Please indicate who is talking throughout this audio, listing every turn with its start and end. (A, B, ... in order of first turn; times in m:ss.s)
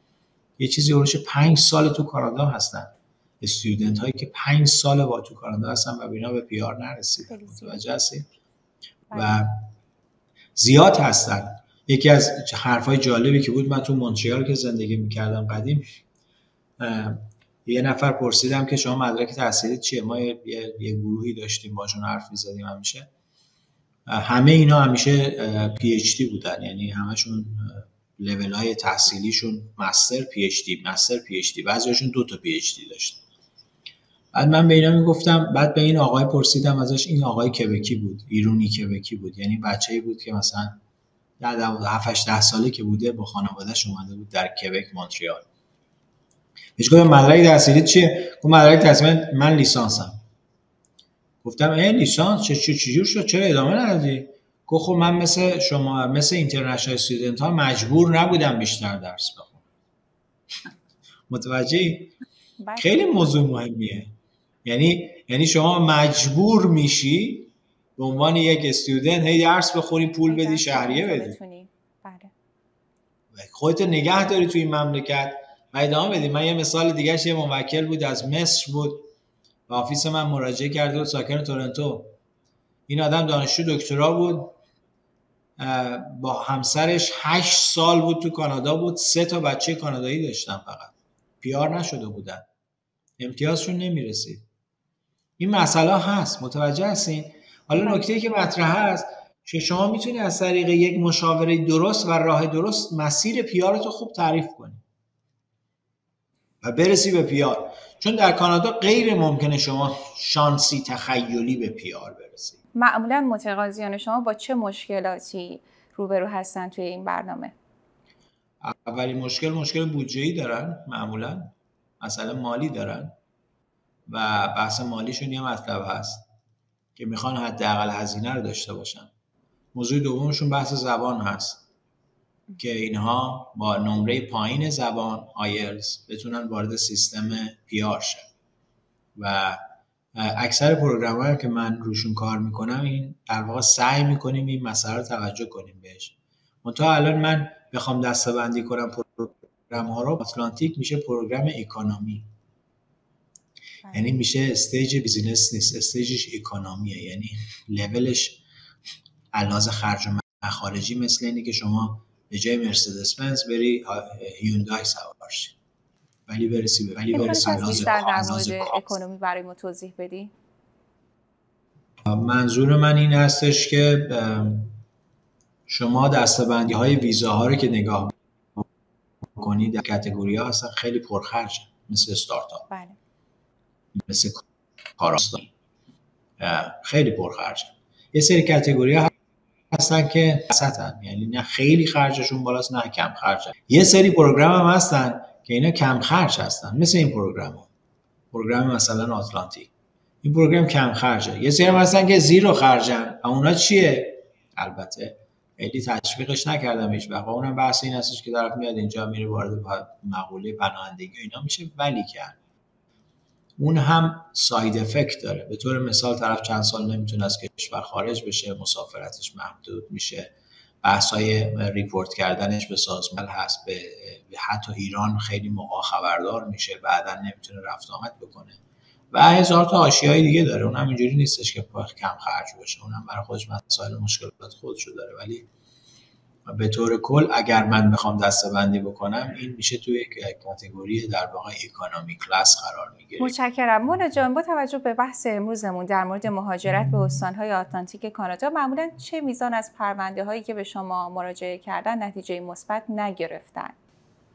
0:00.6-0:08.3 A
0:07.3-0:07.8 B
0:09.1-0:09.4 B
0:09.1-0:09.5 A
0:10.6-0:15.8 A
0:16.8-0:23.1 A
0:24.1-0:33.2 A
0:34.3-0:40.8 A
0:41.4-0:45.4 A
0:46.8-0:50.2 A
0:51.4-0:59.6 A
1:01.3-1:02.1 A
1:02.6-1:03.3 B
1:02.8-1:04.1 A
1:04.6-1:11.4 A
1:10.3-1:12.3 B
1:13.3-1:19.1 A
1:19.7-1:22.2 A
1:22.9-1:24.6 A
1:25.6-1:32.5 A
1:33.2-1:34.4 A
1:35.4-1:44.8 A
1:46.6-1:52.6 A
1:52.8-1:57.5 B
1:58.6-2:03.1 A
2:04.1-2:06.3 A
2:07.0-2:09.1 A
2:09.7-2:11.6 A
2:12.6-2:18.3 A
2:19.2-2:19.6 A
2:20.1-2:32.3 A
2:33.8-2:34.1 B
2:33.9-2:38.4 A
2:39.3-2:45.6 A
2:46.3-2:49.0 A
2:47.1-2:50.3 B
2:52.1-2:54.8 A
2:55.7-2:58.7 A
2:59.4-3:02.7 A
3:02.7-3:03.0 B
3:04.0-3:04.4 A
3:05.0-3:05.5 A
3:06.4-3:09.1 A
3:09.7-3:17.7 A
3:18.3-3:19.7 A
3:20.2-3:32.4 A
3:33.6-3:48.6 A
3:49.1-3:55.5 A
3:56.4-4:03.3 A
4:03.2-4:13.7 B